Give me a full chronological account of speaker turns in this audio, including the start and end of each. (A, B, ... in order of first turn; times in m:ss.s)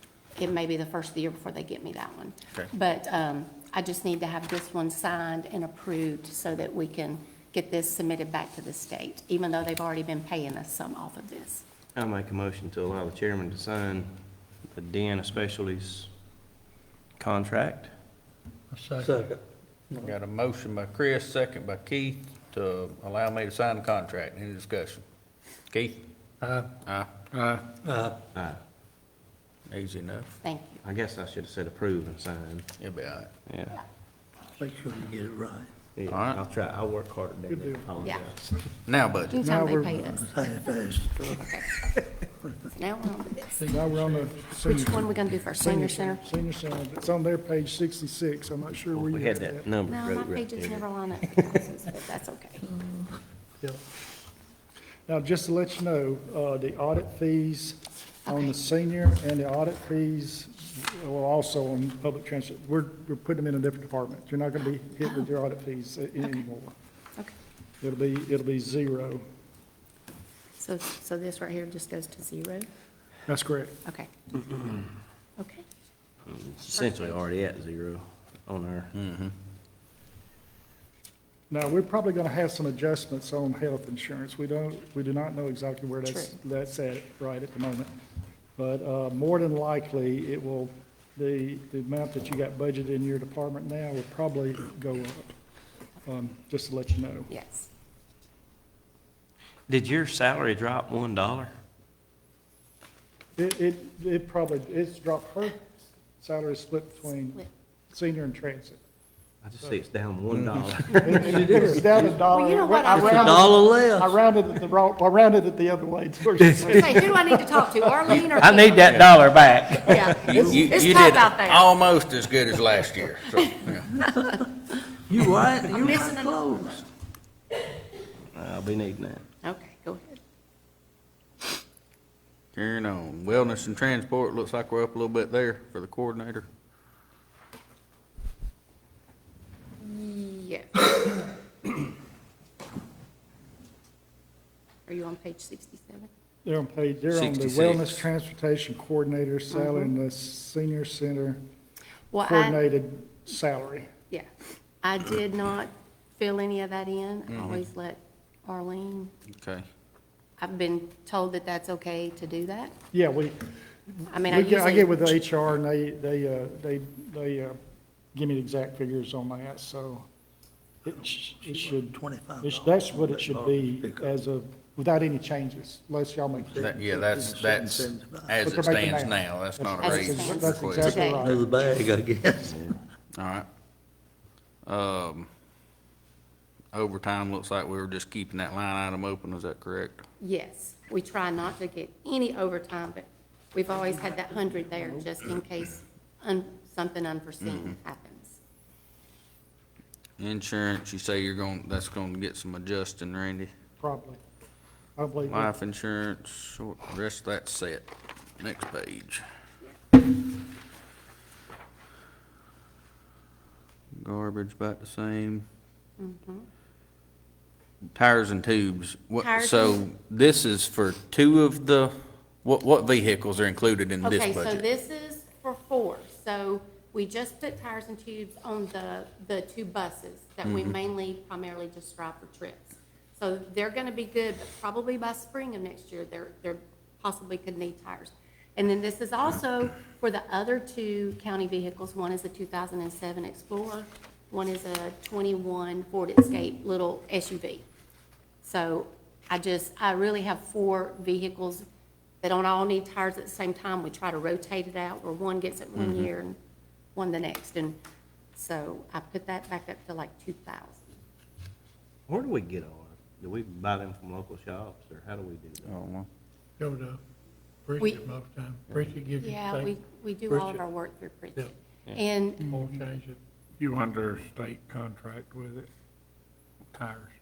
0:00.4-0:11.6 A
0:12.0-0:14.1 B
0:14.7-0:16.1 B
0:17.2-0:17.9 B
0:18.7-0:19.2 C
0:19.0-0:19.4 D
0:20.0-0:25.0 E
0:25.7-0:26.0 E
0:26.8-0:27.3 E
0:27.8-0:28.2 D
0:29.7-0:30.4 E
0:30.4-0:30.8 A
0:30.8-0:32.7 B
0:32.8-0:33.3 E
0:33.5-0:33.8 B
0:34.6-0:35.7 D
0:36.0-0:38.6 B
0:36.1-0:36.4 E
0:37.5-0:38.0 F
0:38.8-0:39.4 E
0:39.3-0:40.7 A
0:39.4-0:40.0 F
0:40.1-0:41.5 D
0:41.3-0:41.8 A
0:42.7-0:43.7 A
0:43.6-0:44.4 C
0:43.7-0:49.7 F
0:44.6-0:46.2 A
0:48.9-0:51.6 B
0:49.9-0:52.8 A
0:55.1-1:06.7 F
1:07.8-1:09.2 F
1:10.6-1:12.7 A
1:13.3-1:13.8 F
1:15.4-1:15.6 A
1:16.3-1:18.9 B
1:16.7-1:17.2 A
1:18.9-1:19.3 E
1:21.5-1:27.9 F
1:26.1-1:26.4 A
1:28.6-1:35.3 F
1:36.0-1:37.3 F
1:37.3-1:37.7 A
1:39.7-1:41.5 B
1:43.4-1:48.8 F
1:49.4-1:52.1 B
1:51.0-1:57.7 F
1:51.2-1:51.6 D
1:52.3-1:53.6 A
1:52.9-1:54.1 D
1:56.4-1:56.9 B
1:56.6-1:59.0 A
1:58.2-1:59.1 E
1:58.4-2:00.6 B
1:59.8-2:01.7 A
2:00.3-2:04.0 E
2:00.3-2:00.7 F
2:03.9-2:04.4 A
2:04.1-2:04.4 D
2:05.1-2:06.8 D
2:05.7-2:06.6 A
2:08.3-2:09.2 B
2:09.4-2:10.2 A
2:12.5-2:16.5 E
2:19.8-2:21.2 A
2:24.9-2:26.1 A
2:26.4-2:31.4 F
2:27.1-2:28.0 E
2:29.5-2:29.9 A
2:32.1-2:32.6 A
2:32.2-2:33.9 F
2:34.8-2:39.1 A
2:37.3-2:37.6 E
2:39.4-2:39.6 E
2:40.4-2:42.8 A
2:42.9-2:47.6 F
2:44.1-2:45.1 A
2:48.1-2:50.1 F
2:50.8-2:56.6 F
2:51.7-2:54.1 D
2:56.4-2:58.4 D
2:56.5-3:01.0 E
2:58.4-3:01.6 F
2:59.8-3:01.3 A
3:01.0-3:02.6 D
3:02.4-3:02.8 B
3:03.2-3:03.5 E
3:04.6-3:05.3 E
3:06.7-3:10.0 E
3:10.2-3:18.4 A
3:13.8-3:15.1 F
3:17.4-3:17.8 E
3:20.2-3:23.5 E
3:23.8-3:24.2 F
3:25.0-3:25.5 F
3:25.2-3:29.2 E
3:34.0-3:35.5 E
3:36.0-3:36.5 A
3:38.0-3:44.7 E
3:39.2-3:39.8 A
3:44.0-4:07.7 A
3:50.4-3:50.7 E
4:08.4-4:11.6 A
4:12.2-4:16.4 A
4:15.8-4:16.1 E
4:17.0-4:17.8 A
4:18.4-4:20.9 A
4:22.1-4:25.7 B
4:25.6-4:26.1 E
4:26.6-4:27.0 C
4:27.7-4:29.8 C
4:29.2-4:32.6 A
4:30.3-4:30.6 C
4:32.5-4:35.3 C
4:36.8-4:37.0 C